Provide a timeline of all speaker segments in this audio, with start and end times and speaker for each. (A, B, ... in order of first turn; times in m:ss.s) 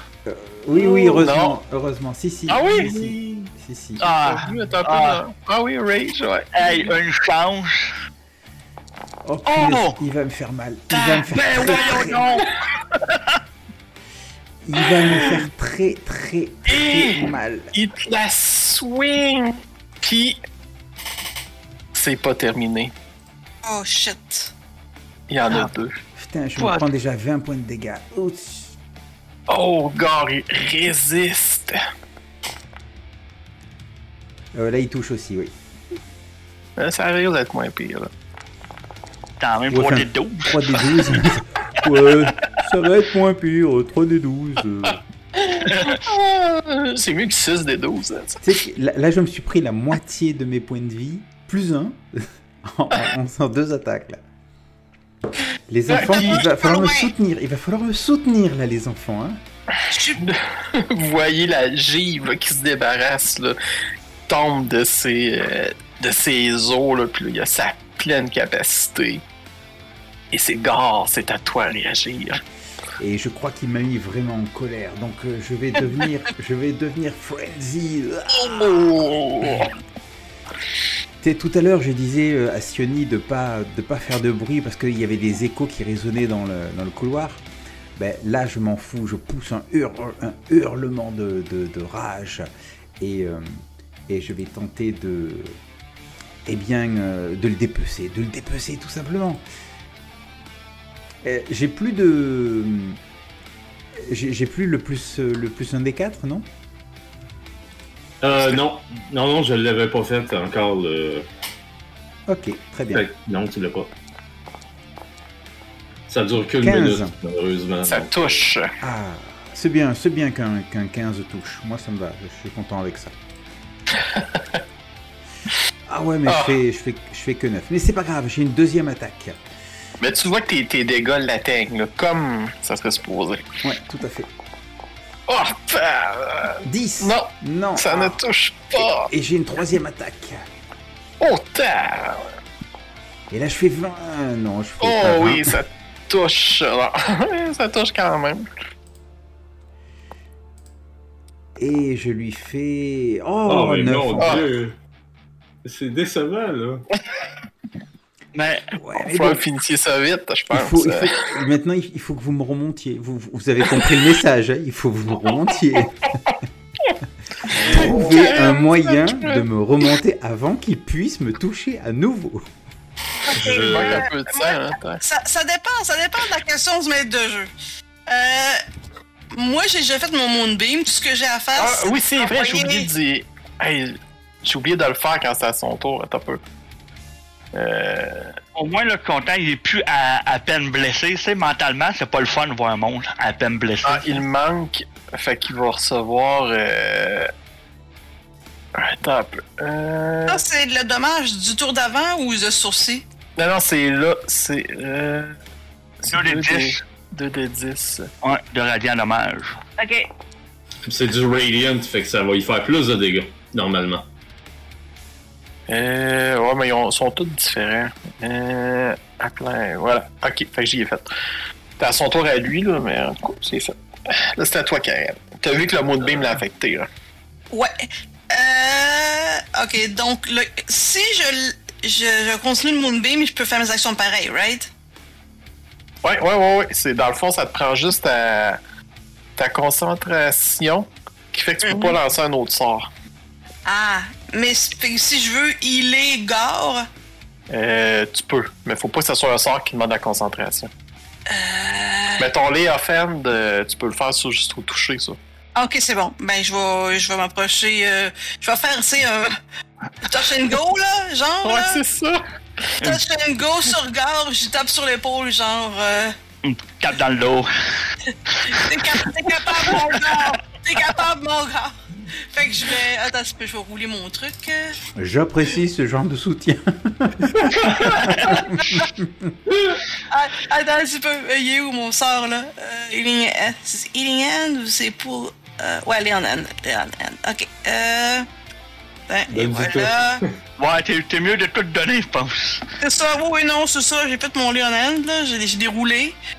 0:00.2-0:04.0 A
0:00.7-0:01.5 B
0:02.5-0:03.1 B
0:04.0-0:05.2 C
0:04.1-0:06.9 B
0:06.5-0:07.9 C
0:09.2-0:12.3 A
0:09.4-0:10.0 C
0:10.9-0:13.4 C
0:14.6-0:17.7 A
0:16.7-0:17.1 B
0:17.7-0:20.4 B
0:21.9-0:22.9 B
0:23.6-0:24.5 D
0:25.3-0:26.0 B
0:26.2-0:28.8 A
0:29.5-0:31.8 B
0:34.5-0:35.5 A
0:36.8-0:38.1 B
0:39.4-0:41.1 C
0:39.7-0:45.0 A
0:45.4-0:48.4 B
0:45.6-0:46.0 C
0:48.4-0:54.2 A
0:55.7-0:59.4 A
0:55.9-0:56.4 B
0:56.0-0:57.1 D
0:59.9-1:00.2 D
1:00.2-1:03.6 B
1:04.3-1:09.2 B
1:10.3-1:12.4 B
1:13.0-1:19.6 A
1:18.4-1:19.7 B
1:21.2-1:27.4 A
1:28.0-1:32.5 A
1:33.0-1:33.5 A
1:34.1-1:35.6 A
1:36.4-1:39.4 A
1:41.2-1:43.0 A
1:44.0-1:46.5 A
1:48.2-1:51.3 E
1:52.3-1:53.1 A
1:52.9-1:53.9 E
1:56.1-1:58.4 E
1:56.6-1:57.1 A
1:57.8-1:58.7 B
1:58.8-2:03.1 A
2:04.0-2:04.6 B
2:05.9-2:09.4 A
2:06.3-2:06.5 B
2:10.0-2:13.4 B
2:13.6-2:14.3 A
2:15.3-2:19.1 B
2:16.6-2:18.2 A
2:18.7-2:20.5 A
2:21.2-2:22.3 B
2:23.3-2:25.5 A
2:24.8-2:28.5 B
2:31.6-2:34.4 A
2:33.5-2:34.8 E
2:34.2-2:34.4 B
2:35.6-2:36.8 E
2:38.3-2:38.7 C
2:38.7-2:39.4 A
2:39.0-2:41.1 B
2:40.5-2:46.1 A
2:47.5-2:49.4 B
2:47.6-2:52.4 A
2:53.2-2:57.5 D
2:53.3-2:54.1 E
2:53.5-2:55.0 B
2:58.1-2:58.6 D
2:59.3-3:02.9 D
3:01.6-3:06.4 B
3:07.5-3:08.4 B
3:08.5-3:14.2 C
3:13.8-3:17.3 B
3:18.8-3:20.4 B
3:20.3-3:23.0 D
3:23.4-3:25.4 B
3:26.0-3:28.1 B
3:26.1-3:26.8 C
3:28.2-3:29.6 C
3:29.8-3:30.1 D
3:30.8-3:34.0 E
3:35.7-3:41.1 B
3:41.8-3:46.9 B
3:47.5-3:54.7 D
3:56.0-3:58.6 B
3:59.4-4:02.9 B
4:01.6-4:02.0 D
4:03.6-4:06.9 D
4:07.5-4:10.7 B
4:11.3-4:12.3 D
4:12.2-4:15.2 B
4:15.6-4:19.3 D
4:20.0-4:21.8 D
4:21.4-4:22.9 B
4:22.8-4:26.1 D
4:26.4-4:27.5 C
4:28.3-4:29.0 C
4:28.4-4:34.8 D
4:29.6-4:30.1 C
4:35.0-4:39.3 A
4:37.4-4:38.1 E
4:38.0-4:38.4 C
4:38.2-4:38.8 D
4:39.5-4:39.8 E
4:40.1-4:48.3 D
4:49.1-4:50.2 D
4:49.3-4:50.3 E
4:50.6-4:52.6 C
4:52.8-4:56.2 D